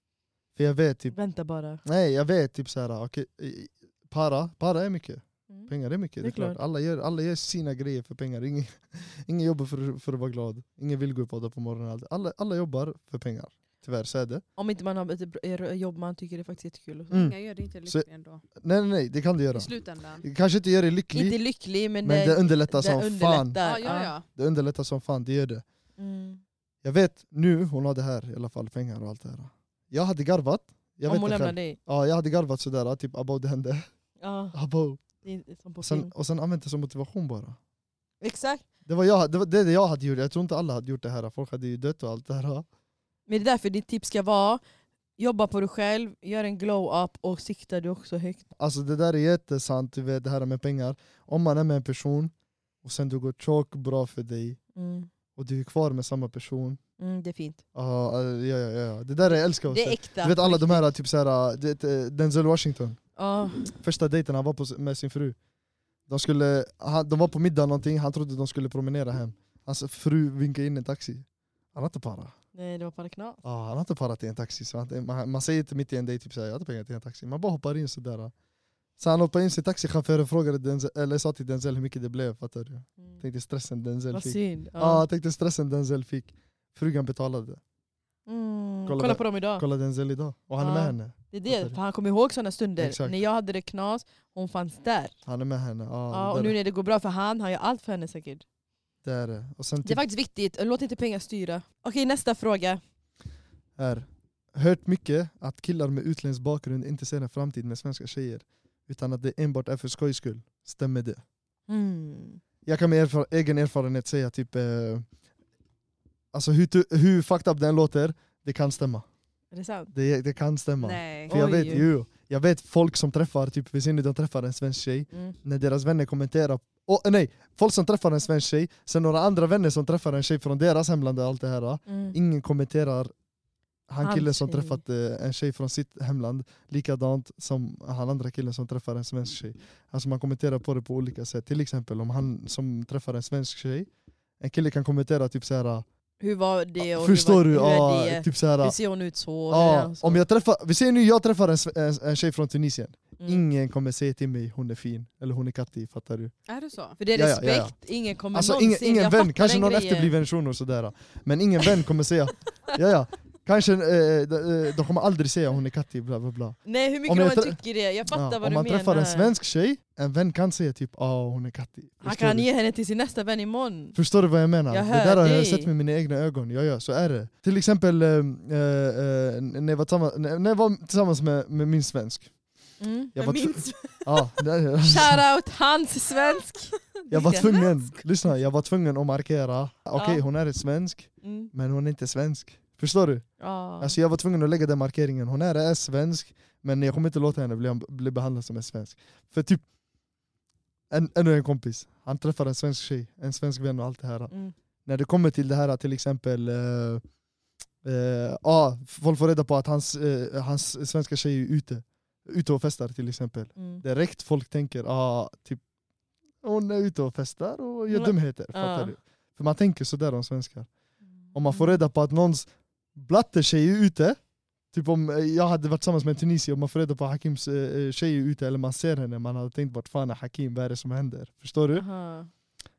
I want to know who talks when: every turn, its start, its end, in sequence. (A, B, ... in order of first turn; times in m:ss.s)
0:00.6-0:01.1 A
0:01.1-0:01.8 B
0:01.8-0:14.4 A
0:06.2-0:06.6 B
0:14.6-0:17.2 B
0:17.1-0:18.4 C
0:17.8-0:21.4 A
0:19.5-0:20.2 C
0:21.1-0:24.1 B
0:22.0-0:23.6 A
0:23.6-0:24.2 C
0:24.3-0:25.6 A
0:26.0-0:26.4 B
0:26.8-0:33.8 A
0:31.1-0:31.8 B
0:34.2-0:34.6 B
0:34.5-0:35.0 A
0:35.2-0:36.1 B
0:35.8-0:37.6 A
0:38.2-0:38.6 B
0:38.8-0:42.6 A
0:43.3-0:44.6 B
0:45.2-0:48.4 B
0:48.6-0:54.6 A
0:54.8-0:55.1 B
0:55.4-0:56.8 A
0:57.0-0:57.6 B
0:57.7-1:03.0 A
0:59.6-1:00.9 B
1:03.2-1:03.7 B
1:03.8-1:05.4 A
1:06.1-1:12.3 A
1:12.5-1:13.4 B
1:13.4-1:18.3 A
1:19.0-1:27.6 A
1:24.1-1:25.0 B
1:28.3-1:29.6 B
1:28.9-1:31.8 A
1:30.6-1:35.1 B
1:32.8-1:33.2 A
1:35.2-1:36.6 A
1:36.1-1:38.4 B
1:39.0-1:40.0 A
1:39.8-1:42.8 B
1:43.8-1:51.2 A
1:51.7-1:52.4 B
1:52.6-1:55.0 A
1:56.3-1:59.0 A
1:59.5-1:59.9 B
1:59.9-2:13.1 A
2:00.8-2:01.3 C
2:01.3-2:01.9 B
2:11.9-2:12.2 B
2:13.9-2:23.9 A
2:14.0-2:14.8 B
2:24.4-2:25.8 A
2:26.2-2:30.2 B
2:26.8-2:28.8 A
2:29.5-2:36.3 A
2:36.5-2:37.0 C
2:37.0-2:40.1 B
2:37.1-2:37.8 A
2:38.3-2:52.5 A
2:46.6-2:49.3 B
2:52.0-2:54.0 B
2:53.9-3:02.3 A
2:54.7-2:55.7 B
3:02.8-3:03.1 B
3:03.1-3:05.2 A
3:03.2-3:04.0 C
3:04.8-3:07.5 B
3:07.1-3:13.3 A
3:07.3-3:07.7 C
3:09.9-3:10.2 B
3:11.2-3:11.5 B
3:13.4-3:14.0 B
3:13.8-3:19.6 A
3:20.9-3:24.3 A
3:24.8-3:27.0 A
3:27.8-3:35.6 A
3:33.6-3:33.8 B
3:36.4-3:40.7 A
3:37.9-3:38.9 B
3:41.2-3:41.8 B
3:41.3-3:44.2 A
3:44.7-3:51.8 A
3:51.7-3:52.3 B